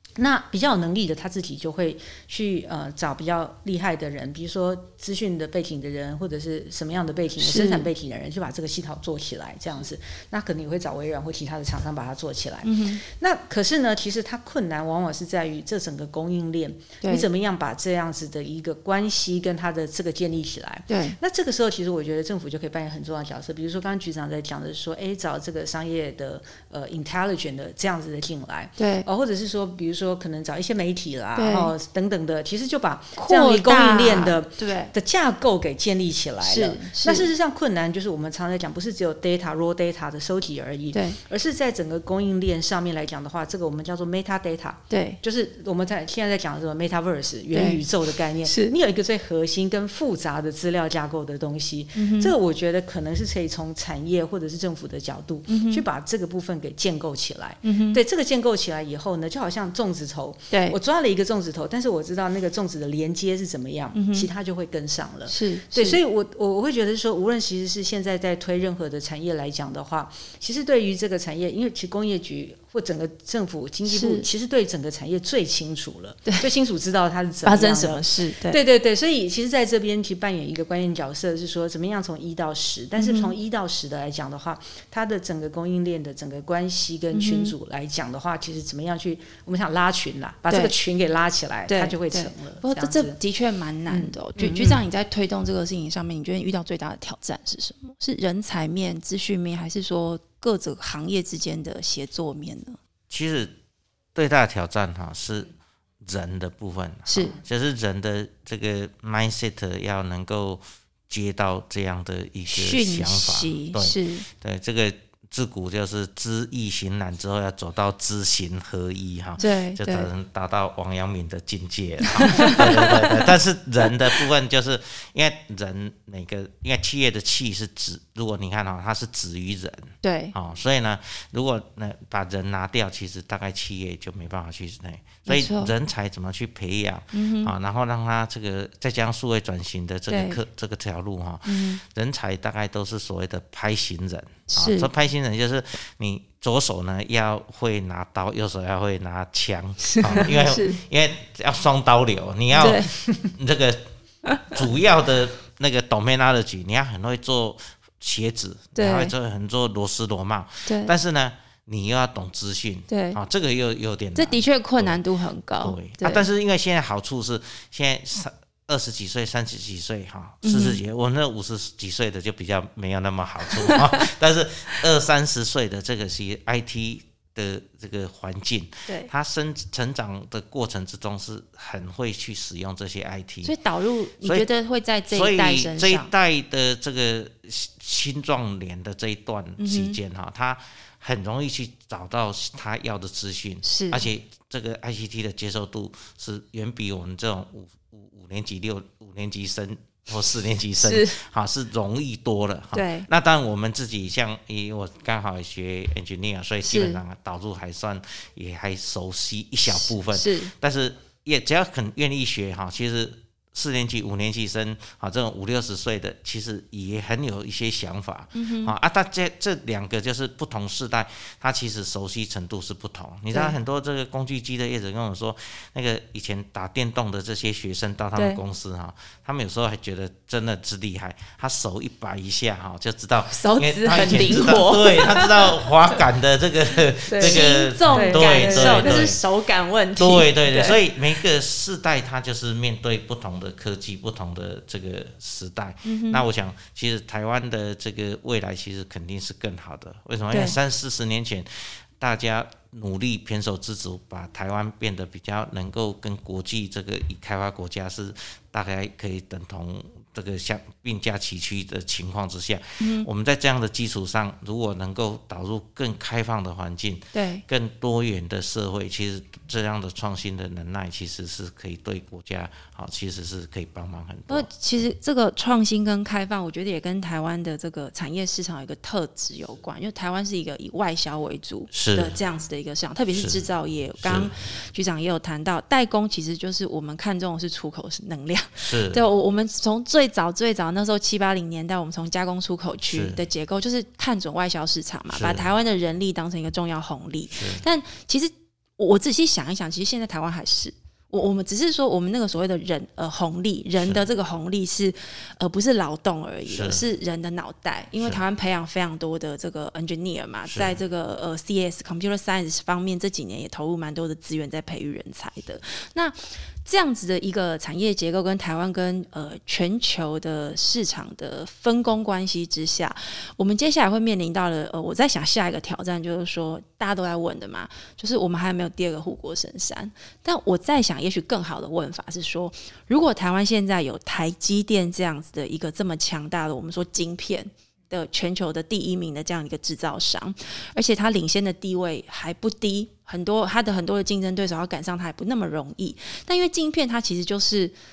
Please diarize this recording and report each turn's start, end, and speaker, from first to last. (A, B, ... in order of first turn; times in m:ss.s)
0:00.2-1:33.2 A
0:07.4-0:07.9 B
0:12.6-0:13.0 B
0:20.9-0:21.2 B
0:28.8-0:29.0 B
0:31.4-0:31.7 B
0:33.2-0:34.9 B
0:36.4-0:37.3 B
0:40.9-0:41.2 B
0:44.9-0:45.2 B
0:47.5-0:47.8 B
0:48.4-0:48.7 B
0:52.0-0:52.3 B
0:55.5-0:55.8 B
0:57.6-0:58.0 B
1:00.5-1:00.8 B
1:03.9-1:04.3 B
1:05.3-1:06.0 B
1:13.9-1:14.3 B
1:17.4-1:18.6 B
1:23.0-1:23.3 B
1:27.1-1:27.5 B
1:31.7-1:42.8 B
1:33.9-1:34.8 A
1:43.1-1:43.5 C
1:44.1-1:45.5 C
1:46.0-2:33.8 C
1:47.1-1:47.4 B
1:52.5-1:54.3 B
1:59.4-2:00.1 B
2:02.2-2:03.2 B
2:10.0-2:10.3 B
2:15.2-2:15.7 B
2:17.1-2:17.5 B
2:20.1-2:20.4 B
2:21.4-2:21.8 B
2:24.5-2:24.9 B
2:29.9-2:30.8 B
2:32.6-2:32.9 B
2:34.2-2:34.6 B
2:34.5-2:45.0 C
2:38.7-2:39.1 B
2:40.6-2:40.9 B
2:42.9-2:43.2 B
2:44.1-2:46.2 B
2:45.6-3:03.5 C
2:50.4-2:50.8 B
2:53.6-2:54.0 B
3:03.4-3:06.1 B
3:04.2-3:04.5 C
3:05.1-3:59.2 C
3:09.6-3:10.0 B
3:13.6-3:14.0 B
3:20.8-3:21.2 B
3:22.7-3:23.1 B
3:26.6-3:27.0 B
3:29.8-3:30.5 B
3:38.3-3:38.7 B
3:48.1-3:48.4 B
3:53.3-3:55.6 B
3:57.1-4:00.8 B
3:57.1-3:59.1 A
4:00.0-4:11.5 C
4:05.8-4:06.2 B
4:10.3-4:10.6 B
4:12.0-4:34.5 C
4:22.8-4:23.1 B
4:27.1-4:27.4 B
4:34.3-5:47.7 B
4:41.7-4:42.2 C
4:43.1-4:43.4 C
4:44.0-4:44.3 C
4:48.6-4:49.0 C
4:52.9-4:53.2 C
4:55.1-4:55.5 C
4:57.3-4:57.6 C
5:06.5-5:06.8 C
5:10.4-5:10.8 C